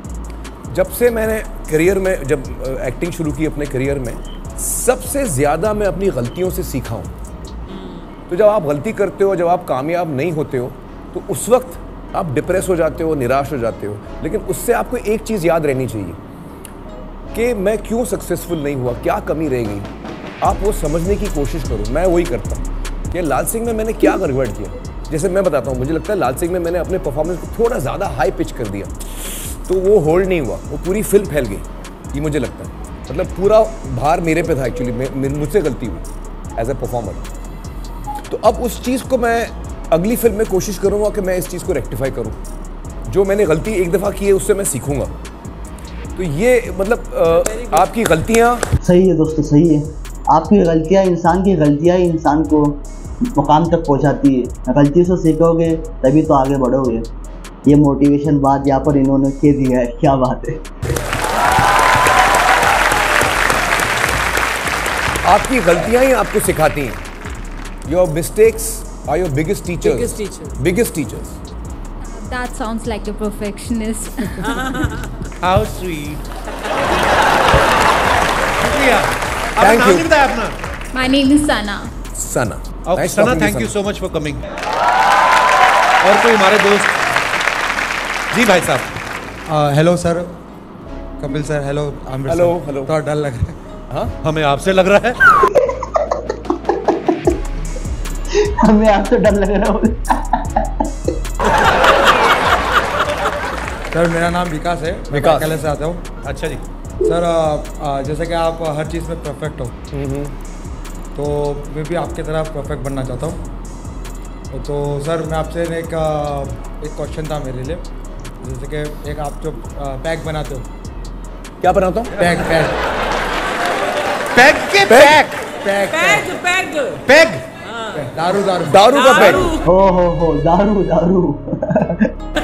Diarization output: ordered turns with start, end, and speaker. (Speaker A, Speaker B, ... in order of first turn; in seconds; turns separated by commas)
Speaker A: 0.7-7.1, Speaker B: 7.7-8.1, Speaker A: 8.3-16.2, Speaker A: 17.3-19.9, Speaker A: 20.4-36.1, Speaker A: 36.6-37.2, Speaker A: 38.3-42.4, Speaker A: 43.1-45.1, Speaker A: 46.2-48.7, Speaker C: 48.8-52.8, Speaker C: 53.3-57.1, Speaker C: 57.7-60.6, Speaker A: 65.2-67.0, Speaker A: 67.9-71.4, Speaker B: 69.9-70.6, Speaker D: 72.0-74.9, Speaker E: 75.4-76.2, Speaker E: 78.6-80.6, Speaker A: 79.6-80.1, Speaker D: 80.9-81.9, Speaker A: 82.2-83.7, Speaker E: 82.9-84.5, Speaker E: 86.0-87.0, Speaker E: 88.3-88.9, Speaker F: 89.5-90.3, Speaker F: 91.2-93.5, Speaker A: 92.3-92.9, Speaker E: 94.2-95.2, Speaker C: 98.4-100.9, Speaker F: 103.9-106.0, Speaker A: 105.1-105.6, Speaker E: 106.2-106.6, Speaker F: 107.0-109.7, Speaker A: 109.9-110.3, Speaker F: 111.2-113.4, Speaker F: 114.5-117.8, Speaker F: 118.4-120.7, Speaker A: 121.6-122.2, Speaker F: 122.2-122.8, Speaker E: 124.3-125.5, Speaker A: 124.9-125.2, Speaker F: 125.6-126.3, Speaker B: 125.8-127.0, Speaker E: 127.1-127.4, Speaker B: 127.7-128.0, Speaker F: 127.9-129.5, Speaker A: 128.7-129.6, Speaker B: 129.0-129.6, Speaker C: 129.6-132.1